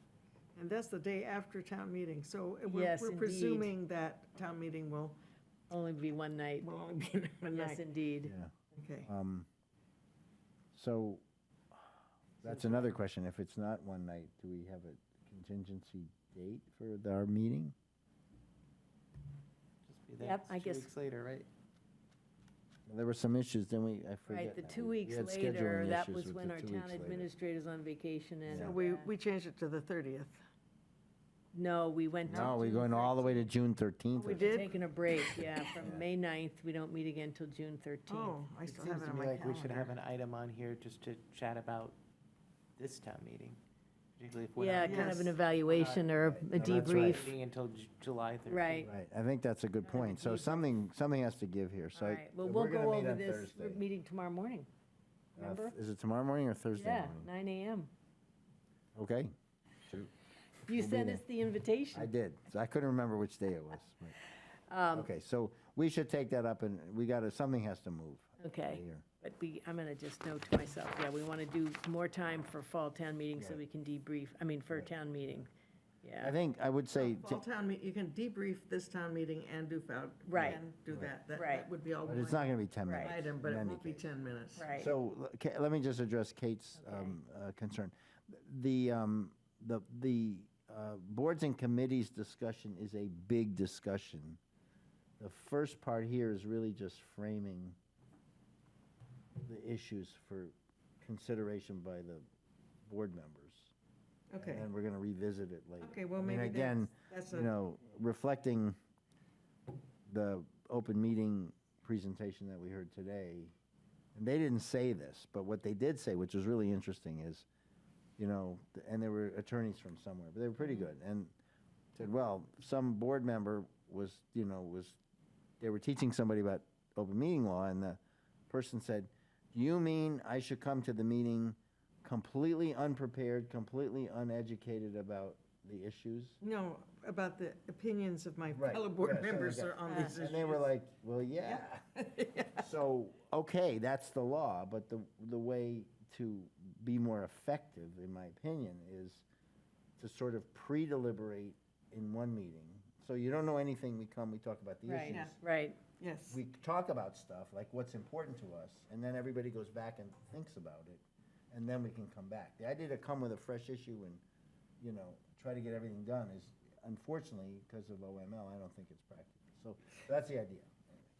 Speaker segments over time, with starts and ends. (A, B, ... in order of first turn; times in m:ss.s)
0:00.6-0:05.2 A
0:02.7-0:03.7 B
0:05.7-0:06.7 B
0:06.6-0:07.8 A
0:07.5-0:08.3 B
0:08.2-0:08.5 C
0:08.7-0:09.1 A
0:09.0-0:09.5 C
0:10.7-0:11.2 C
0:12.4-0:17.7 C
0:12.4-0:12.8 B
0:19.8-0:21.5 D
0:20.2-0:20.9 B
0:22.9-0:27.2 C
0:24.3-0:29.1 B
0:28.4-0:28.8 C
0:28.5-0:30.4 A
0:31.5-0:33.4 B
0:32.2-0:34.6 C
0:34.1-0:34.8 A
0:34.4-0:38.4 B
0:35.8-0:36.0 C
0:38.1-0:40.0 A
0:38.7-0:42.0 D
0:42.8-0:43.6 D
0:44.2-0:46.1 D
0:44.6-0:47.3 B
0:44.8-0:45.4 A
0:46.2-0:47.3 C
0:46.6-0:48.9 D
0:48.5-0:48.9 B
0:48.8-0:53.8 C
0:49.8-0:50.7 B
0:51.9-0:54.7 B
0:55.4-0:55.7 B
0:55.4-0:57.3 C
0:56.7-0:57.9 B
0:59.0-0:59.3 C
1:00.6-1:02.1 B
1:00.7-1:01.2 C
1:01.9-1:04.1 C
1:04.7-1:05.1 B
1:04.9-1:09.0 C
1:08.4-1:15.5 B
1:13.4-1:13.6 C
1:16.0-1:16.4 B
1:16.2-1:17.4 C
1:16.9-1:24.8 A
1:20.3-1:20.6 B
1:20.4-1:21.1 C
1:21.3-1:21.7 B
1:22.0-1:24.1 C
1:22.8-1:23.1 B
1:24.6-1:24.9 B
1:24.7-1:34.4 C
1:26.8-1:27.1 B
1:35.2-1:37.8 C
1:39.4-1:42.2 C
1:42.8-1:43.7 C
1:44.3-1:44.7 A
1:44.4-1:48.8 C
1:45.8-1:47.5 A
1:50.0-1:53.5 C
1:54.1-1:57.4 C
1:58.2-2:01.3 C
2:02.0-2:05.0 C
2:05.6-2:16.4 C
2:16.4-2:20.7 A
2:18.5-2:21.8 C
2:19.9-2:20.1 B
2:21.4-2:22.6 A
2:22.5-2:29.2 C
2:30.0-2:35.4 C
2:34.8-2:35.8 B
2:35.1-2:35.4 A
2:36.0-2:36.4 A
2:36.3-2:44.2 C
2:44.8-2:51.0 C